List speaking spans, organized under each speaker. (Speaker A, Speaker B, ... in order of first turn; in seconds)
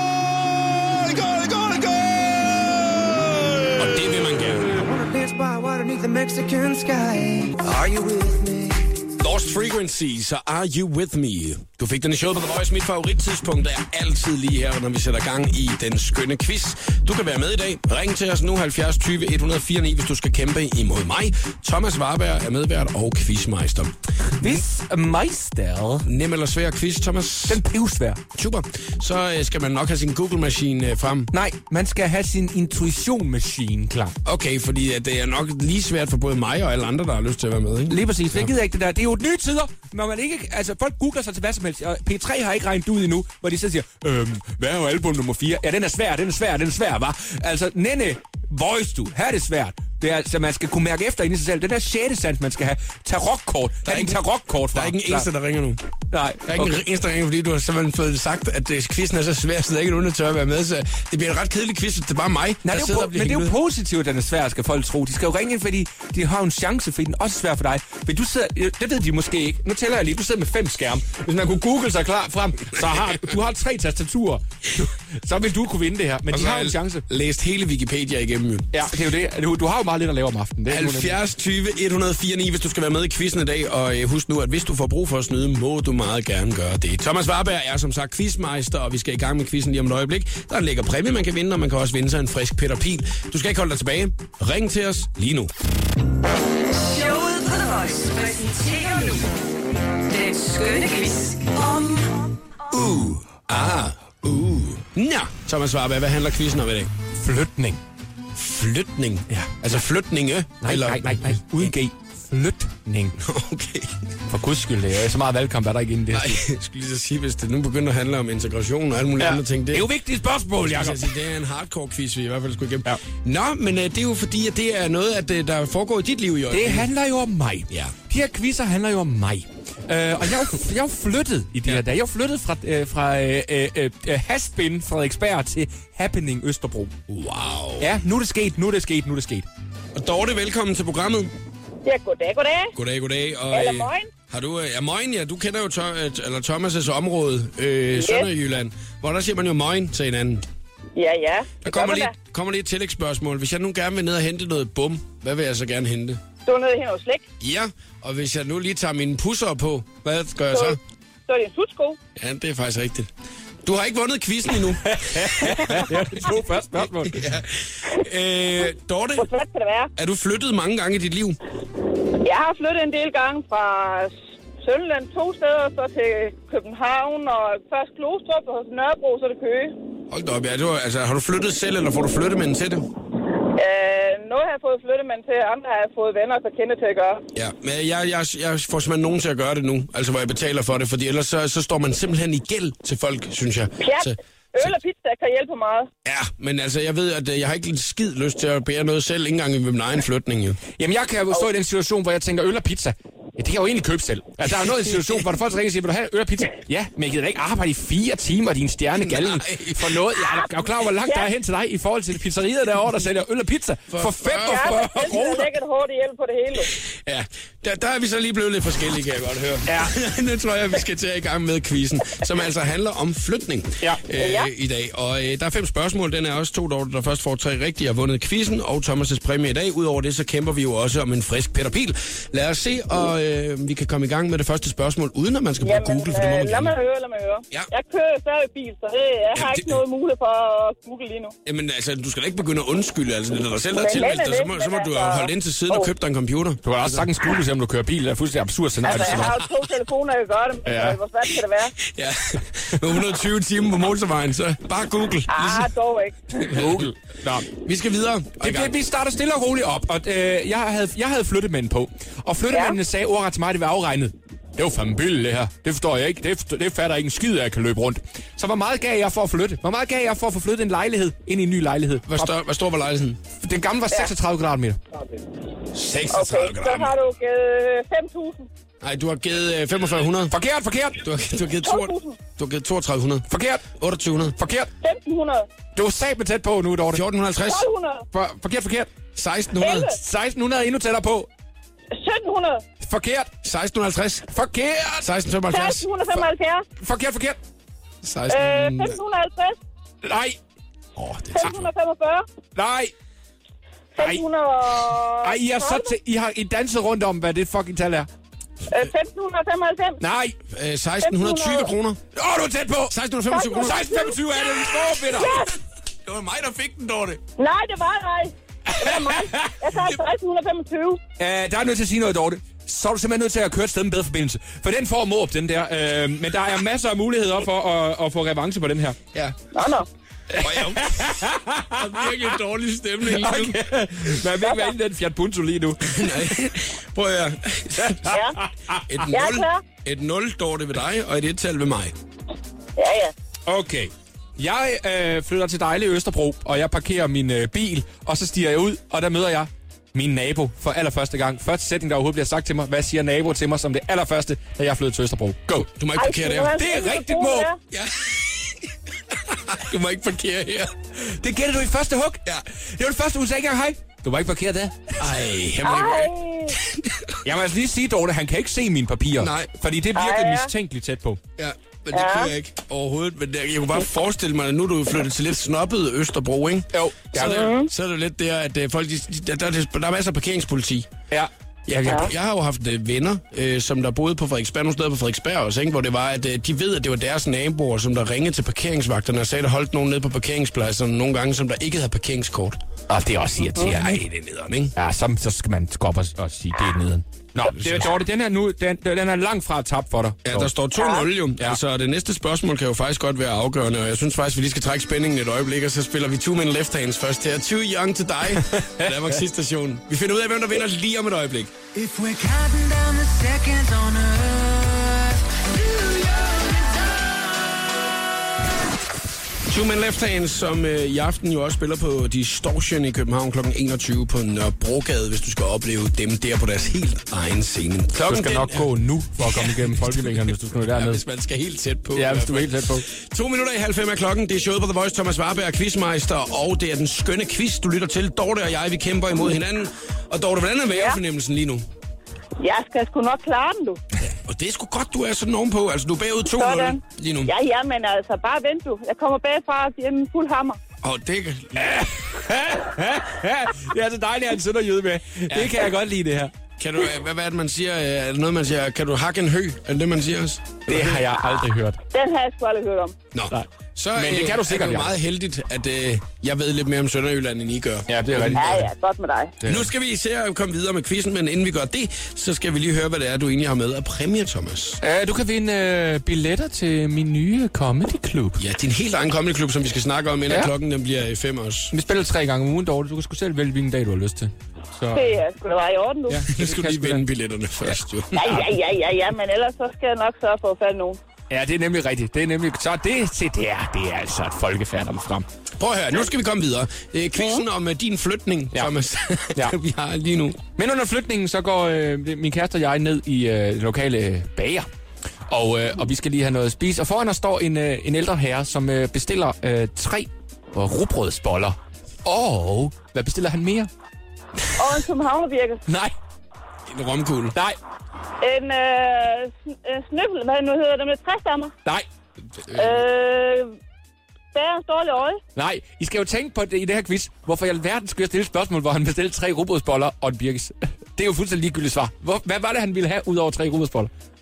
Speaker A: 0.8-4.7, 9.2-24.6, 26.0-27.6, 28.3-31.3, 34.2-38.5, 53.8-55.8, 56.5-63.5, 76.3-78.7, 80.7-95.5, 102.7-106.9, 108.3-111.7, 113.2-114.0, 116.1-119.9, 120.6-126.9, 137.1-137.9, 139.9-141.3, 142.8-150.4, 151.6-156.2, 157.4-160.8, 162.1-163.1, 163.6-166.2, 166.8-169.3, 169.9-171.4, 180.1-182.8, 187.3-194.8, 196.0-200.6, 209.0-210.0, 213.9-214.8, 216.8-236.7, 239.3-239.8, 241.4-247.1, 248.9-249.5, 251.8-255.7, 256.4-256.9, 257.5-258.8, 272.1-273.2, 275.7-276.9, 278.8-280.3, 281.0-284.4, 286.9-287.7, 289.1-289.9, 293.4-294.3, 295.0-296.2, 298.0-299.0, 310.5-312.0, 312.9-313.8, 316.0-317.2, 329.1-329.5, 330.4-333.7, 335.9-338.1, 338.9-341.9, 355.6-356.6, 357.7-360.7, 365.0-367.2, 369.2-369.5, 371.4-380.9, 381.8-392.6, 393.6-394.7, 397.4-397.9, 400.2-411.5, 419.4-441.6, 444.1-447.3, 450.8-451.8, 455.3-455.7, 456.6-461.0, 463.1-468.6, 469.4-474.8, 478.4-481.7, 486.3-488.4, 495.6-500.4, 516.7-517.4
Speaker B: 4.7-9.0, 411.7-417.6
Speaker C: 24.4-26.1, 27.5-28.2, 31.3-34.1, 37.9-55.3, 56.1-56.8, 62.6-77.0, 78.7-81.2, 107.2-107.8, 110.6-113.2, 114.3-116.4, 119.2-121.1, 126.5-136.9, 137.8-139.4, 164.8-167.2, 200.8-215.5, 219.7-219.9, 246.6-249.4, 250.7-251.0, 256.4-257.5, 258.4-272.3, 273.4-274.8, 280.3-281.0, 283.3-283.6, 284.4-284.7, 285.7-287.0, 288.1-288.9, 289.6-291.3, 292.8-293.3, 294.3-295.1, 296.8-297.4, 300.0-300.4, 301.0-301.5, 302.5-302.9, 305.2-308.1, 310.0-310.4, 312.1-312.9, 313.5-315.5, 318.7-319.6, 321.2-329.0, 330.3-332.3, 333.1-336.3, 337.8-339.0, 343.5-355.7, 356.6-357.5, 361.0-365.0, 367.2-371.2, 376.7-377.5, 381.1-382.1, 392.9-394.0, 394.8-400.5, 408.5-409.0, 428.0-431.0, 431.9-432.9, 451.6-456.3, 460.7-461.8, 463.3-464.9, 467.9-468.7, 469.4-469.7, 474.8-478.4, 481.7-485.2, 486.1-487.1, 491.3-495.2, 500.6-504.7, 505.3-513.7, 515.7-515.9, 525.4-533.9
Speaker D: 96.6-99.3, 100.0-102.6
Speaker E: 141.8-142.7, 143.5-144.1, 148.0-148.3, 150.9-152.1, 156.4-157.3, 160.5-162.0, 169.2-169.9, 172.2-179.7, 183.5-187.2, 193.8-195.9, 214.4-216.7, 224.2-224.5, 235.6-241.3, 243.8-245.9, 248.8-251.7, 255.3-256.4, 262.5-262.8, 276.1-278.5, 281.6-282.2, 284.8-285.5, 287.4-288.0, 289.6-289.9, 291.9-292.6, 295.5-296.6, 298.3-299.6, 301.3-302.2, 303.9-305.9, 308.7-310.0, 311.0-311.7, 313.3-315.5, 317.4-321.0, 329.5-329.9, 334.4-334.7, 338.1-338.3, 339.1-339.6, 342.8-343.1, 355.9-357.6, 365.6-366.6, 369.9-370.5, 371.9-372.3, 377.2-377.7, 400.8-401.0, 442.4-443.8, 446.4-450.6, 461.9-462.9, 468.4-469.4, 484.9-486.3, 488.1-491.0, 497.2-497.4, 514.6-515.6, 518.2-521.5, 522.5-523.5, 524.3-525.2